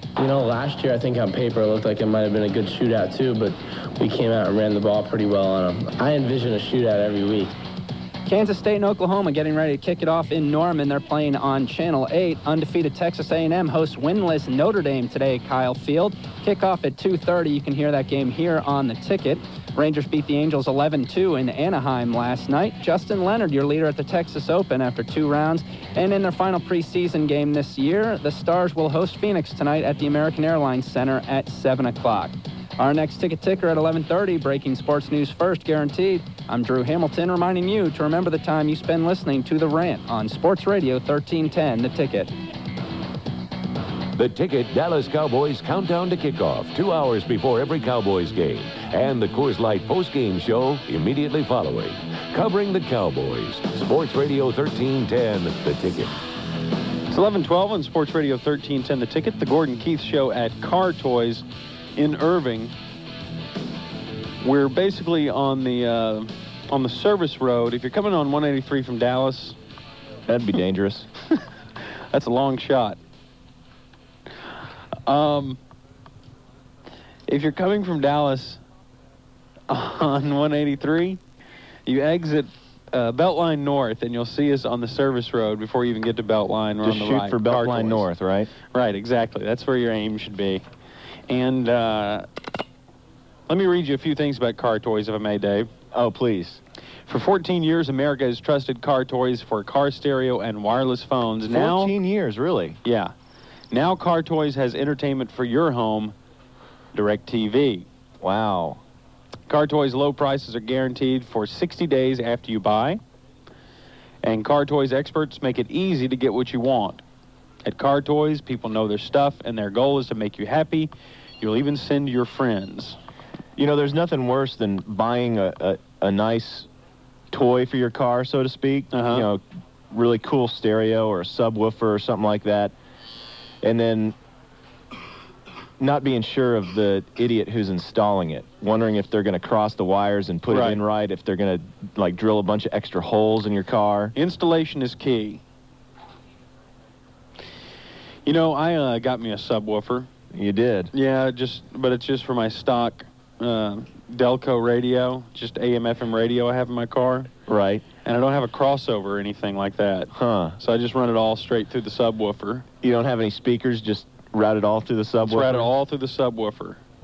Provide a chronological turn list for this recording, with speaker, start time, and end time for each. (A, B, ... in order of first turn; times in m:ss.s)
0:00.2-0:07.5 A
0:08.2-0:42.3 B
0:44.2-0:56.1 C
0:57.1-1:01.4 D
1:02.0-1:02.7 D
1:04.4-1:09.6 D
1:10.3-1:11.1 E
1:12.1-1:13.0 D
1:15.1-1:15.6 D
1:17.3-1:18.6 D
1:19.7-1:21.2 D
1:21.9-1:28.1 D
1:26.8-1:28.5 E
1:28.7-1:30.6 D
1:31.3-1:32.2 D
1:33.5-1:35.7 D
1:35.9-1:36.6 E
1:37.1-1:41.9 D
1:41.4-1:42.8 E
1:42.8-1:43.1 D
1:43.7-1:46.1 D
1:46.9-1:47.8 D
1:48.2-1:48.8 E
1:49.5-1:53.0 D
1:54.2-1:57.0 D
1:57.6-2:03.0 D
2:03.6-2:06.7 E
2:07.3-2:12.7 E
2:08.9-2:09.2 D
2:13.6-2:14.1 E
2:15.8-2:24.1 E
2:20.5-2:20.8 D
2:24.1-2:25.4 D
2:28.2-2:30.1 D
2:30.3-2:30.9 E
2:30.9-2:37.3 D
2:37.5-2:37.8 E
2:38.0-2:42.6 D
2:40.1-2:40.6 E
2:42.8-2:45.7 E
2:45.2-2:46.8 D